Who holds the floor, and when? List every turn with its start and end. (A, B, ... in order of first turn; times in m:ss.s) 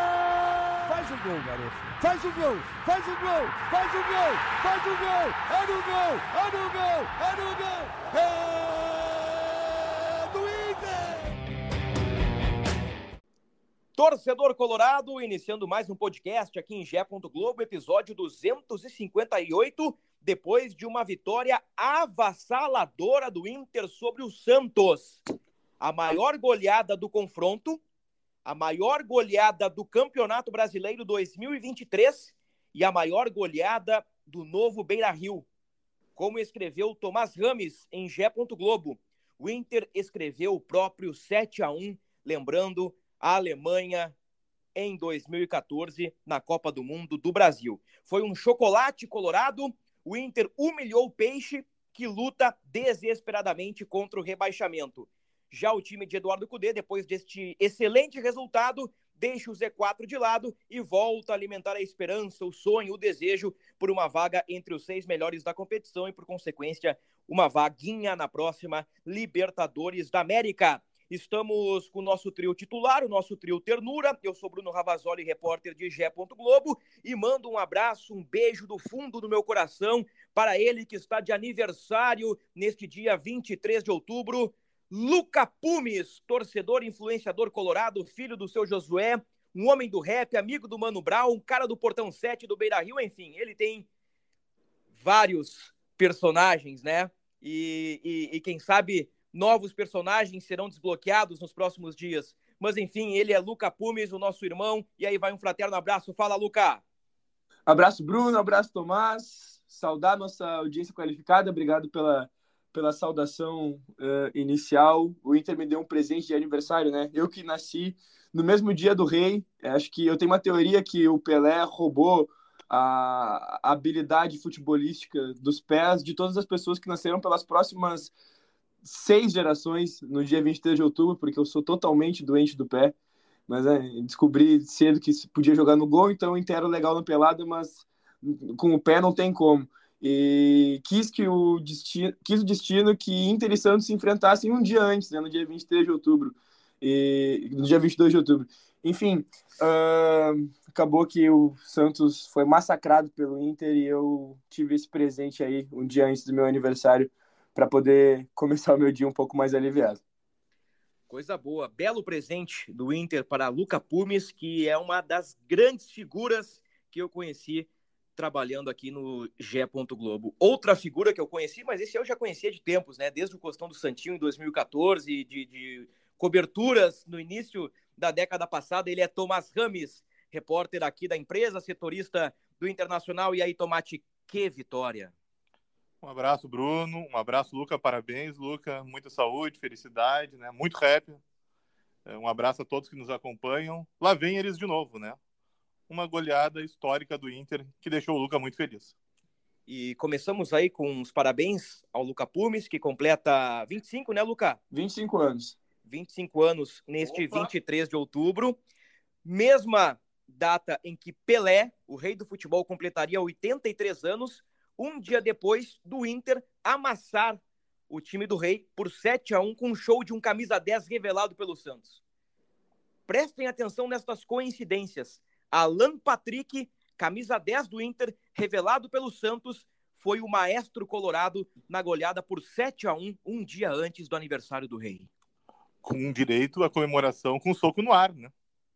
0:00.8-0:11.4 A
0:14.0-0:25.2 B
0:25.8-0:27.8 B
0:28.4-0:35.5 B
0:36.2-0:44.1 B
0:44.7-1:33.9 B
1:34.9-1:46.8 B
1:47.7-2:08.1 C
2:08.8-2:13.0 C
2:13.5-2:40.0 C
2:41.1-3:05.1 B
3:06.0-3:11.2 D
3:12.0-3:15.2 D
3:15.9-3:18.9 D
3:19.7-3:24.6 B
3:24.7-3:25.6 C
3:25.8-3:28.6 B
3:27.0-3:27.5 C
3:29.2-3:42.0 B
3:43.1-3:55.1 B
3:55.8-3:58.3 D